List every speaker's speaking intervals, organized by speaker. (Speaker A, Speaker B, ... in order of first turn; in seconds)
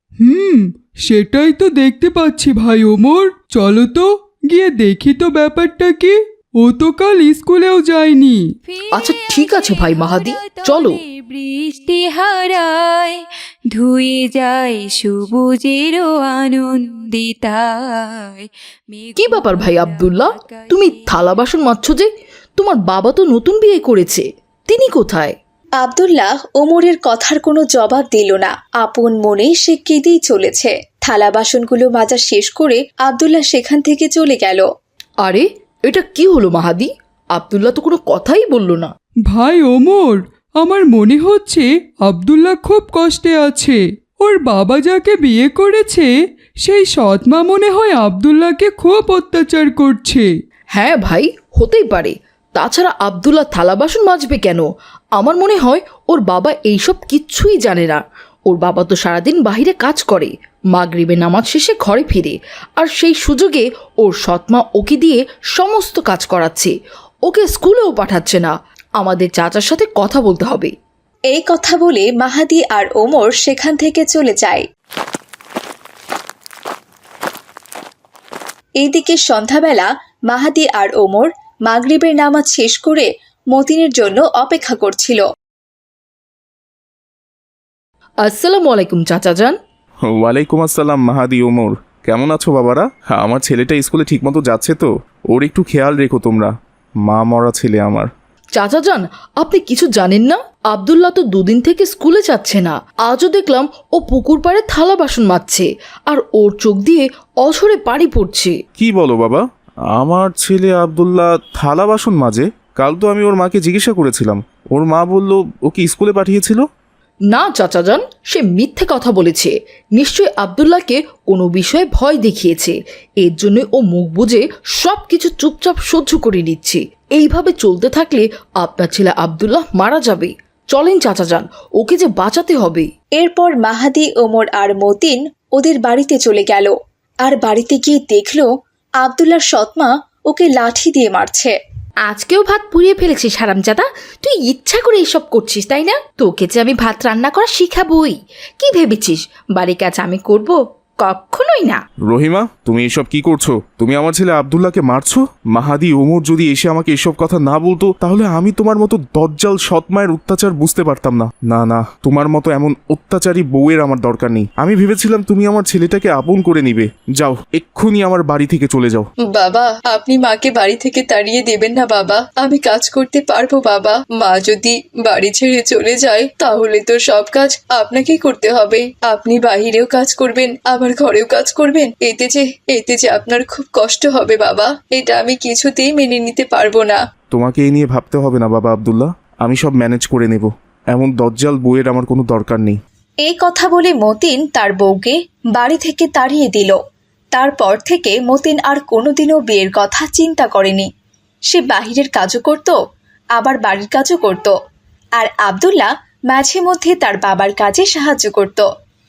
Speaker A: 0.2-8.4, 39.3-46.1, 46.6-50.3
Speaker B: 8.6-21.1
Speaker C: 8.9-10.9, 19.2-25.4, 35.2-38.9, 50.7-54.6, 55.2-66.7, 67.3-70.7, 98.5-108.6, 117.3-132.9
Speaker D: 25.8-34.6, 71.3-74.7, 78.8-85.2, 133.2-141.5, 169.3-187.0, 193.2-196.8, 197.3-200.9, 201.5-202.8, 203.3-204.5, 205.2-208.7
Speaker E: 88.3-89.5, 142.1-151.8
Speaker F: 90.1-96.5, 97.0-98.1, 108.8-109.4, 109.9-116.6, 152.1-169.1, 187.3-192.8